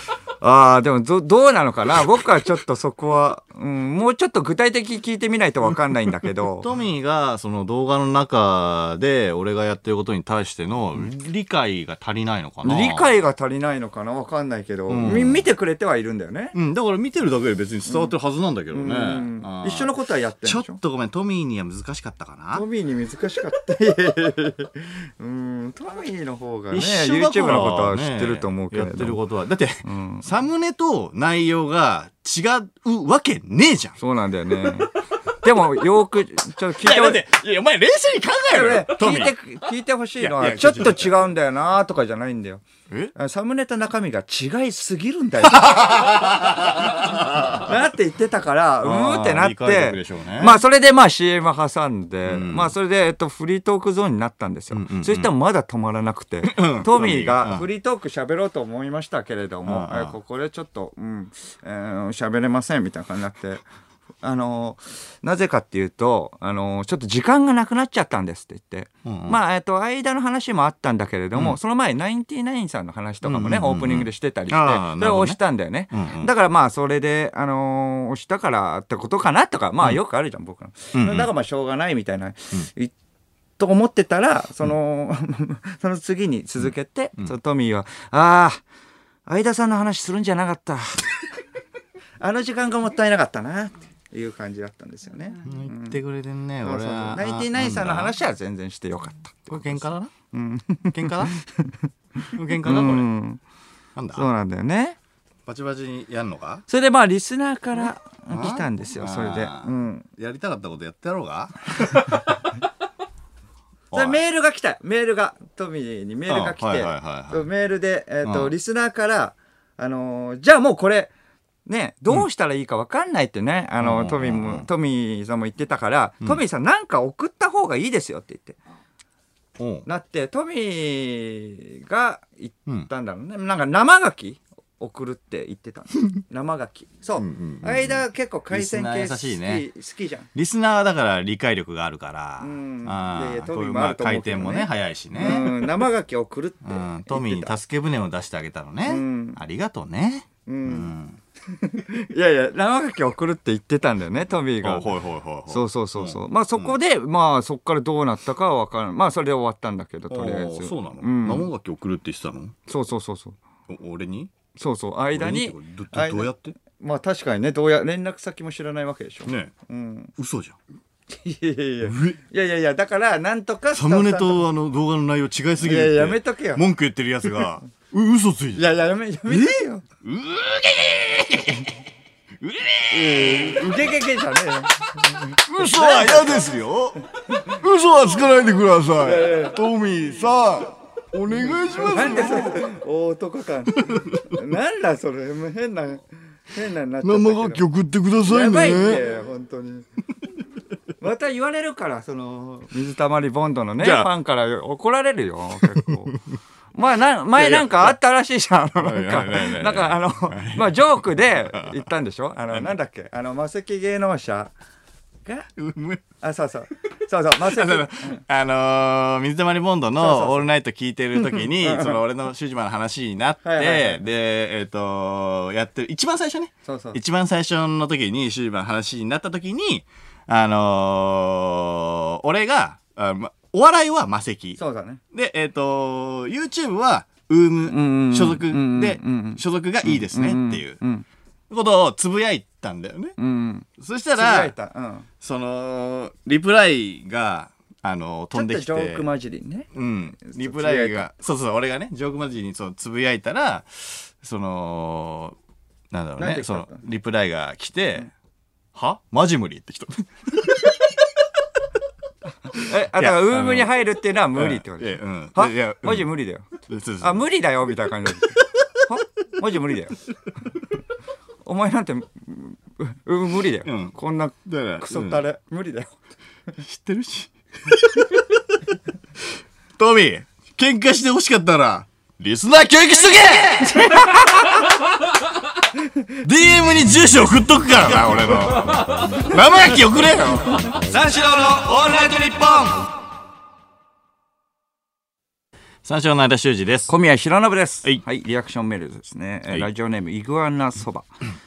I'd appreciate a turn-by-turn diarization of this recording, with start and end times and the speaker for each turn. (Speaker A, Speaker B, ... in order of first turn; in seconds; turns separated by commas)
Speaker A: 0.4-6.7, Speaker B: 6.4-13.1, Speaker A: 12.6-16.5, Speaker B: 14.9-15.5, Speaker B: 16.5-19.9, Speaker A: 17.9-18.1, Speaker A: 18.7-20.8, Speaker B: 20.4-22.6, Speaker A: 22.5-29.2, Speaker B: 26.7-34.0, Speaker A: 29.8-30.2, Speaker A: 34.0-37.2, Speaker B: 36.8-39.3, Speaker A: 38.5-42.6, Speaker B: 40.2-41.2, Speaker A: 43.1-46.4, Speaker B: 45.6-47.7, Speaker A: 47.5-63.6, Speaker B: 48.8-50.6, Speaker B: 52.2-52.7, Speaker B: 54.7-55.3, Speaker B: 56.4-57.6, Speaker B: 59.7-60.1, Speaker A: 64.2-82.9, Speaker B: 69.0-69.4, Speaker B: 73.2-75.4, Speaker B: 75.9-76.3, Speaker B: 80.9-81.3, Speaker A: 83.6-88.6, Speaker A: 89.2-91.4, Speaker A: 92.2-96.0, Speaker B: 95.4-98.1, Speaker A: 96.6-103.4, Speaker B: 99.5-100.1, Speaker B: 100.9-101.4, Speaker B: 102.3-103.1, Speaker B: 104.0-104.3, Speaker A: 104.2-105.0, Speaker B: 105.5-106.6, Speaker A: 106.7-110.0, Speaker B: 108.3-112.2, Speaker B: 113.9-114.2, Speaker A: 113.9-121.1, Speaker B: 116.3-117.5, Speaker B: 118.2-118.5, Speaker A: 121.7-128.6, Speaker B: 123.8-124.7, Speaker B: 129.6-129.8, Speaker A: 129.8-140.3, Speaker B: 137.2-139.6, Speaker B: 140.3-145.8, Speaker A: 142.4-147.6, Speaker B: 146.6-151.2, Speaker A: 148.8-149.4, Speaker A: 150.4-150.9, Speaker A: 151.5-161.5, Speaker B: 154.6-156.7, Speaker B: 160.1-162.6, Speaker A: 162.7-163.4, Speaker B: 163.7-164.3, Speaker A: 164.6-170.1, Speaker B: 165.1-166.6, Speaker B: 169.2-169.5, Speaker B: 170.2-170.6, Speaker A: 171.1-174.4, Speaker B: 171.8-172.2, Speaker B: 173.7-178.7, Speaker A: 175.6-176.6, Speaker A: 178.6-179.8, Speaker B: 179.3-181.7, Speaker B: 182.4-183.9, Speaker A: 182.9-186.5, Speaker B: 185.3-192.7, Speaker A: 187.1-187.6, Speaker A: 188.9-189.6, Speaker A: 191.8-197.7, Speaker B: 193.7-194.3, Speaker B: 197.0-199.0, Speaker A: 198.2-199.8, Speaker A: 201.0-206.1, Speaker B: 203.8-204.1, Speaker B: 205.6-206.3, Speaker A: 206.7-214.5, Speaker B: 207.3-207.9, Speaker B: 208.8-211.8, Speaker B: 215.6-216.0, Speaker A: 216.2-218.2, Speaker B: 217.4-234.6, Speaker A: 220.0-220.5, Speaker A: 221.3-222.0, Speaker A: 223.4-224.0, Speaker A: 226.6-227.0, Speaker A: 234.6-235.0, Speaker B: 235.1-240.8, Speaker A: 237.7-241.1, Speaker B: 241.5-243.2, Speaker A: 243.2-245.1, Speaker B: 243.8-244.5, Speaker B: 245.2-249.0, Speaker A: 248.3-249.7, Speaker B: 249.7-255.4, Speaker A: 250.2-251.1, Speaker B: 255.9-258.1, Speaker A: 256.2-256.8, Speaker B: 258.7-260.9, Speaker A: 262.6-266.5, Speaker B: 262.6-263.7, Speaker B: 264.3-266.1, Speaker B: 266.7-267.3, Speaker A: 267.0-270.0, Speaker B: 268.3-268.9, Speaker A: 271.4-275.9, Speaker B: 273.6-273.9, Speaker B: 274.4-275.2, Speaker B: 276.6-278.4, Speaker B: 279.8-284.3, Speaker A: 283.6-284.7, Speaker A: 285.8-286.2, Speaker B: 286.2-292.7, Speaker A: 289.1-292.9, Speaker B: 295.8-296.9, Speaker A: 296.9-301.1